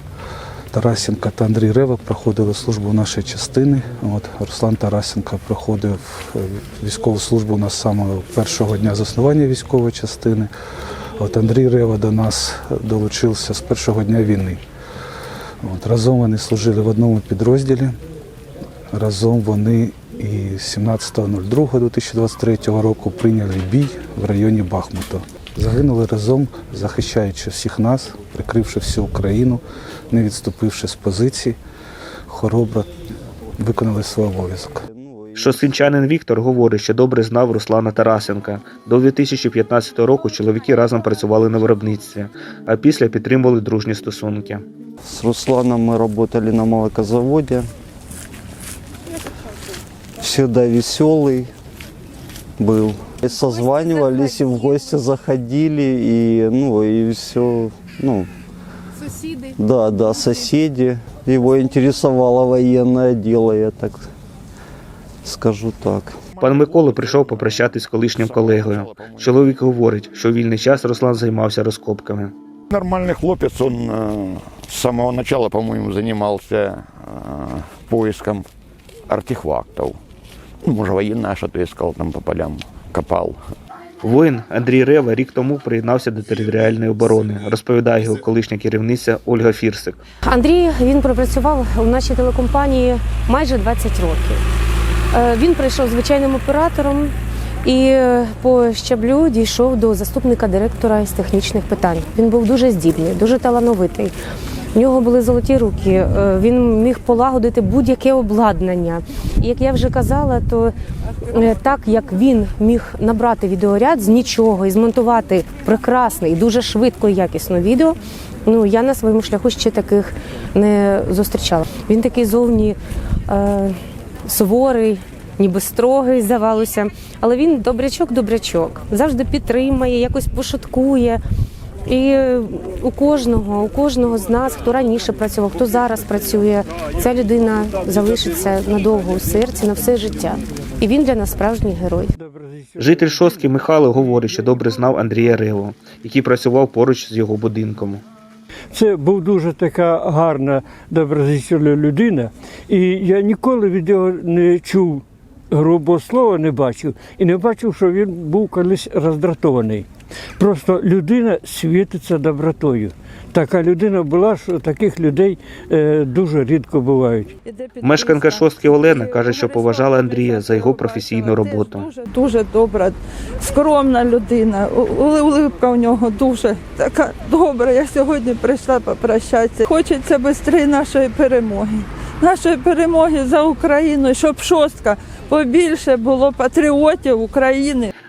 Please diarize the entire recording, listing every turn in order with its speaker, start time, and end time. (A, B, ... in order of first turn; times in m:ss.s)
0:00.7-0:10.5 A
0:11.2-0:14.6 A
0:15.6-0:18.0 A
0:18.9-0:31.6 A
0:32.3-0:32.9 A
0:33.6-0:34.8 A
0:34.9-0:35.7 B
0:35.4-0:44.6 C
0:45.0-0:47.7 B
0:50.2-0:51.5 B
0:52.6-0:58.3 B
0:59.4-1:04.1 B
1:05.2-1:06.2 B
1:06.4-1:07.6 D
1:06.4-1:12.3 C
1:08.1-1:09.4 D
1:12.7-1:18.5 D
1:19.1-1:20.0 D
1:20.6-1:23.4 D
1:24.0-1:30.0 C
1:30.2-1:34.4 E
1:35.1-1:37.1 E
1:37.6-1:44.1 E
1:44.7-1:50.7 E
1:51.3-2:11.2 E
2:11.8-2:22.1 E
2:22.2-2:23.2 F
2:22.8-2:28.0 C
2:28.7-2:39.9 F
2:40.4-2:47.3 F
2:47.4-3:07.9 G
2:47.8-2:51.9 C